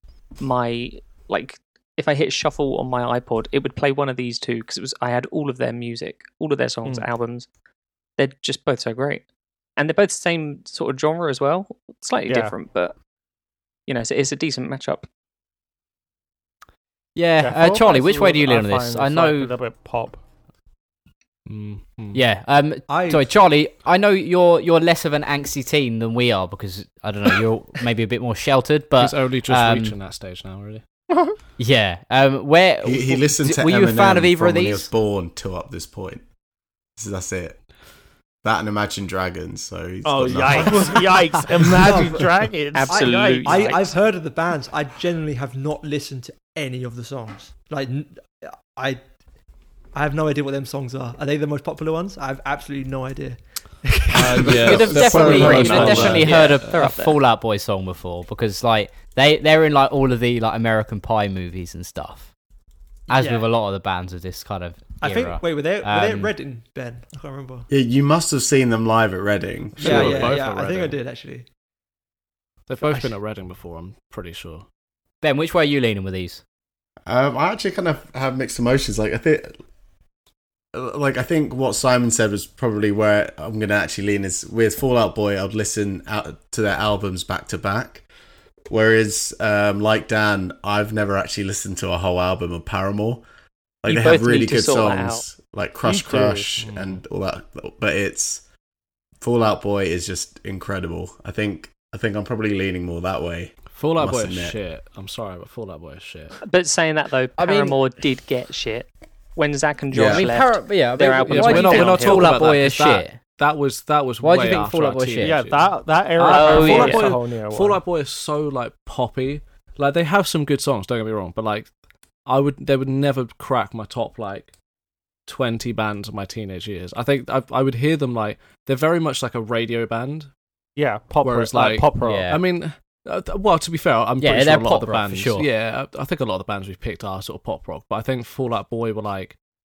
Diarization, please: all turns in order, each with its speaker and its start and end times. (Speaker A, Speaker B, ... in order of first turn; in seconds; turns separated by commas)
Speaker A: 0.4-7.5, Speaker A: 8.2-9.2, Speaker A: 9.8-12.9, Speaker B: 12.3-12.5, Speaker A: 13.9-15.1, Speaker C: 17.1-19.5, Speaker B: 17.4-20.2, Speaker D: 21.5-22.2, Speaker C: 22.1-29.9, Speaker E: 22.9-23.3, Speaker D: 29.0-30.8, Speaker B: 31.1-31.3, Speaker C: 31.6-34.9, Speaker F: 32.8-36.2, Speaker F: 37.0-37.6, Speaker F: 38.4-41.2, Speaker B: 40.0-43.8, Speaker E: 41.8-42.2, Speaker A: 42.7-43.9, Speaker E: 42.9-49.0, Speaker E: 49.9-56.6, Speaker D: 54.1-56.6, Speaker C: 54.3-62.3, Speaker F: 54.4-56.2, Speaker A: 56.3-57.2, Speaker E: 63.1-63.5, Speaker C: 63.1-66.3, Speaker E: 65.0-67.7, Speaker F: 67.7-70.3, Speaker D: 69.8-71.0, Speaker E: 69.8-71.5, Speaker D: 72.7-74.6, Speaker E: 72.8-73.1, Speaker C: 75.2-76.4, Speaker F: 77.1-79.5, Speaker F: 80.7-88.0, Speaker F: 88.7-93.2, Speaker F: 93.8-98.4, Speaker A: 93.9-95.2, Speaker B: 95.8-96.5, Speaker D: 96.6-97.0, Speaker F: 99.2-104.6, Speaker D: 103.7-106.3, Speaker A: 106.4-112.4, Speaker C: 107.4-107.8, Speaker D: 109.9-110.2, Speaker C: 109.9-113.2, Speaker D: 111.3-121.7, Speaker C: 114.2-115.3, Speaker B: 115.2-117.8, Speaker C: 116.3-117.0, Speaker A: 116.6-116.8, Speaker D: 122.2-124.5, Speaker D: 125.3-130.3, Speaker B: 130.8-132.3, Speaker D: 131.2-139.4, Speaker C: 132.0-132.4, Speaker C: 134.2-135.5